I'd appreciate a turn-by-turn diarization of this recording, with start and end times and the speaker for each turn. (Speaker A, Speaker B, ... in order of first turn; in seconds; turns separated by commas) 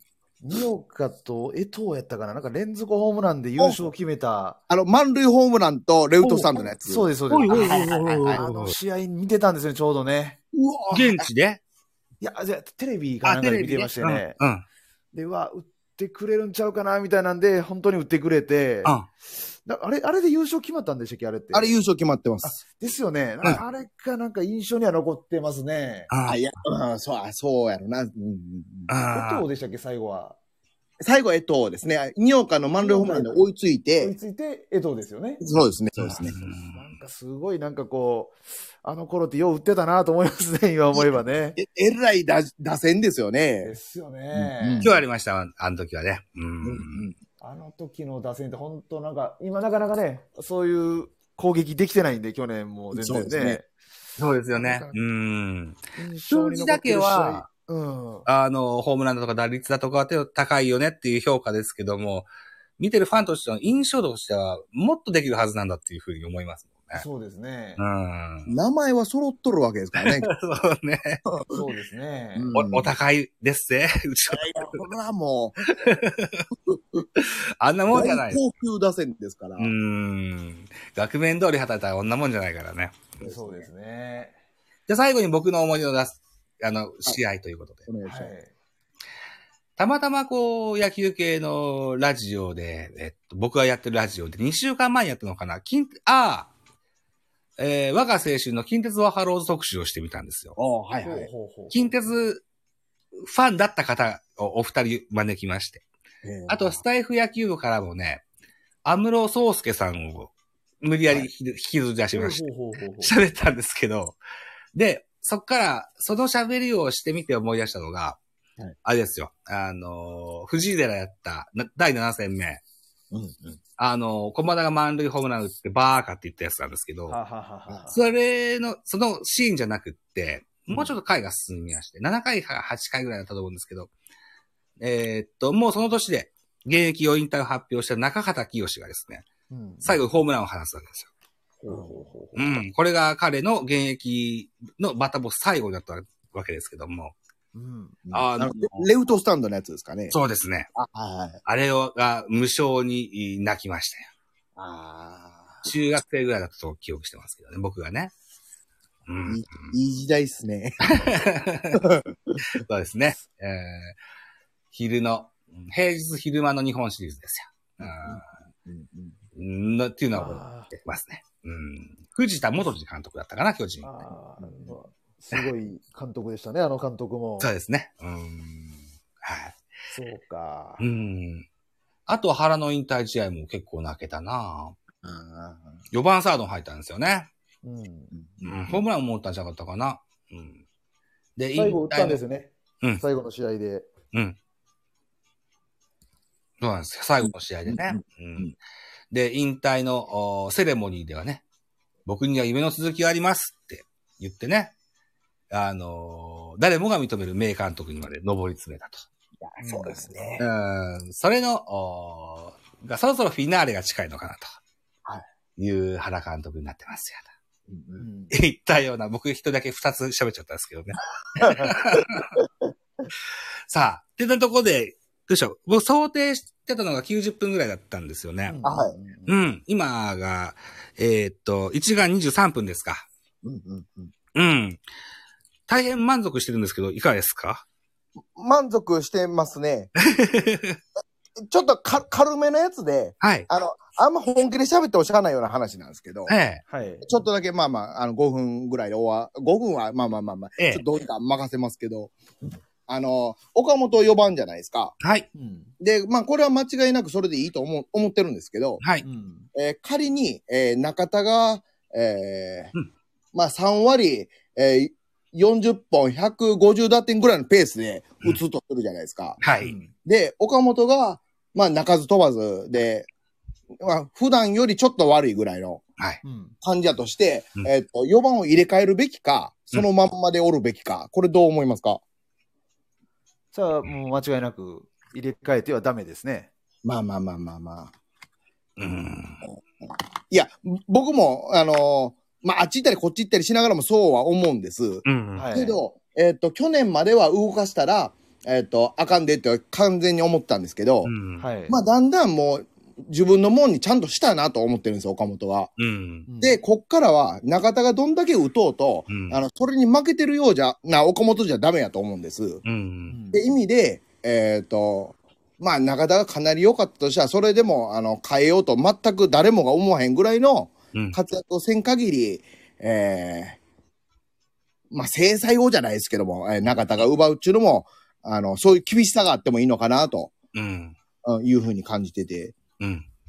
Speaker A: 0.4-4.6, Speaker B: 4.7-8.4, Speaker A: 6.2-10.4, Speaker C: 7.3-8.8, Speaker B: 10.5-11.3, Speaker C: 10.9-11.6, Speaker A: 12.2-14.3, Speaker C: 13.2-14.6, Speaker A: 15.1-18.9, Speaker A: 19.6-21.8, Speaker B: 21.5-22.6, Speaker A: 22.4-26.1, Speaker C: 26.1-26.4, Speaker B: 26.2-28.9, Speaker C: 28.9-29.4, Speaker A: 29.1-30.4, Speaker B: 31.0-34.1, Speaker A: 32.8-33.4, Speaker A: 34.0-35.4, Speaker B: 35.4-36.4, Speaker C: 36.0-36.9, Speaker A: 36.1-41.6, Speaker B: 41.6-43.7, Speaker A: 43.6-45.0, Speaker B: 44.3-44.9, Speaker C: 44.8-47.1, Speaker B: 46.6-47.1, Speaker A: 47.4-53.7, Speaker B: 52.9-53.6, Speaker C: 54.2-57.5, Speaker A: 54.6-54.9, Speaker A: 56.0-58.3, Speaker C: 58.2-62.3, Speaker C: 62.8-67.0, Speaker A: 66.9-67.8, Speaker C: 67.8-68.5, Speaker B: 68.5-70.3, Speaker C: 70.0-71.2, Speaker B: 71.3-71.6, Speaker A: 71.5-72.5, Speaker B: 72.3-72.9, Speaker C: 72.5-74.8, Speaker B: 74.3-75.7, Speaker C: 75.7-76.5, Speaker B: 76.7-77.0, Speaker C: 77.2-78.4, Speaker B: 77.9-79.7, Speaker C: 79.6-83.1, Speaker B: 83.2-83.6, Speaker A: 83.2-84.4, Speaker C: 84.9-87.9, Speaker B: 87.9-88.3, Speaker A: 88.0-88.5, Speaker C: 89.8-96.5, Speaker C: 97.6-100.6, Speaker B: 100.6-101.3, Speaker A: 101.0-101.9, Speaker C: 101.7-102.4, Speaker C: 103.2-105.8, Speaker B: 106.2-106.8, Speaker C: 106.5-108.2, Speaker C: 108.8-112.4, Speaker A: 112.1-113.1, Speaker C: 113.0-114.2, Speaker C: 114.7-118.2, Speaker C: 118.8-122.6, Speaker B: 123.1-123.6, Speaker C: 123.8-127.2, Speaker A: 127.1-127.9, Speaker C: 127.9-133.9, Speaker C: 134.8-139.3, Speaker A: 139.5-140.0, Speaker C: 139.8-141.1, Speaker B: 141.6-142.1, Speaker A: 141.6-142.4, Speaker C: 142.3-147.1, Speaker A: 147.5-148.0, Speaker B: 148.1-150.2, Speaker C: 148.1-148.9, Speaker C: 150.1-150.7, Speaker B: 150.7-151.4, Speaker C: 151.4-154.1, Speaker B: 154.6-155.7, Speaker C: 155.6-158.1, Speaker C: 159.1-159.7, Speaker B: 159.3-161.1, Speaker C: 160.8-161.8, Speaker B: 161.7-162.4, Speaker C: 162.5-163.9, Speaker C: 164.7-168.3, Speaker B: 167.8-169.1, Speaker C: 169.3-174.1, Speaker A: 170.1-170.7, Speaker A: 173.8-177.5, Speaker B: 174.4-174.7, Speaker C: 177.4-179.6, Speaker A: 179.9-180.9, Speaker C: 180.8-181.4, Speaker C: 182.1-184.8, Speaker B: 185.0-185.7, Speaker C: 185.9-187.3, Speaker A: 187.6-188.1, Speaker B: 188.1-188.8, Speaker C: 188.4-190.6, Speaker C: 191.4-192.2, Speaker A: 191.5-193.9, Speaker C: 196.6-198.5, Speaker B: 197.7-198.5, Speaker C: 199.1-201.4, Speaker C: 202.1-204.7, Speaker C: 205.5-209.1, Speaker B: 209.4-210.4, Speaker A: 209.6-210.3, Speaker C: 210.4-214.6, Speaker C: 215.6-217.3, Speaker B: 217.7-218.1, Speaker A: 218.0-218.3, Speaker C: 218.3-222.3, Speaker B: 221.4-222.4, Speaker C: 223.7-228.6, Speaker A: 228.5-229.4, Speaker B: 228.6-228.9, Speaker C: 229.2-233.1, Speaker B: 233.4-234.1, Speaker C: 234.3-234.8, Speaker C: 235.7-237.6, Speaker B: 238.3-239.9, Speaker C: 240.0-240.8, Speaker B: 241.4-246.3, Speaker C: 243.2-243.4, Speaker C: 246.3-246.6, Speaker A: 246.7-247.0, Speaker B: 247.0-252.1, Speaker C: 250.6-250.8, Speaker B: 252.9-254.9, Speaker C: 255.0-255.3, Speaker A: 255.3-255.7, Speaker B: 255.8-258.8, Speaker A: 259.0-259.5, Speaker B: 259.5-262.7, Speaker B: 263.3-269.4, Speaker C: 269.4-269.8, Speaker A: 269.6-269.9, Speaker B: 269.9-273.1, Speaker B: 273.8-275.8, Speaker A: 276.2-276.5, Speaker B: 276.6-282.0, Speaker A: 283.5-286.5, Speaker B: 286.8-287.9, Speaker C: 288.8-289.4, Speaker B: 290.3-301.1, Speaker C: 295.1-295.4, Speaker A: 295.3-295.8, Speaker C: 301.0-301.4, Speaker A: 301.4-301.8, Speaker B: 301.7-305.7, Speaker C: 305.8-306.2, Speaker A: 306.2-306.6, Speaker B: 306.4-312.6, Speaker C: 309.1-309.4, Speaker C: 312.6-313.1, Speaker A: 313.1-313.4, Speaker B: 313.3-323.6, Speaker B: 324.9-330.3, Speaker C: 330.5-330.9, Speaker B: 331.2-332.5, Speaker C: 332.8-333.1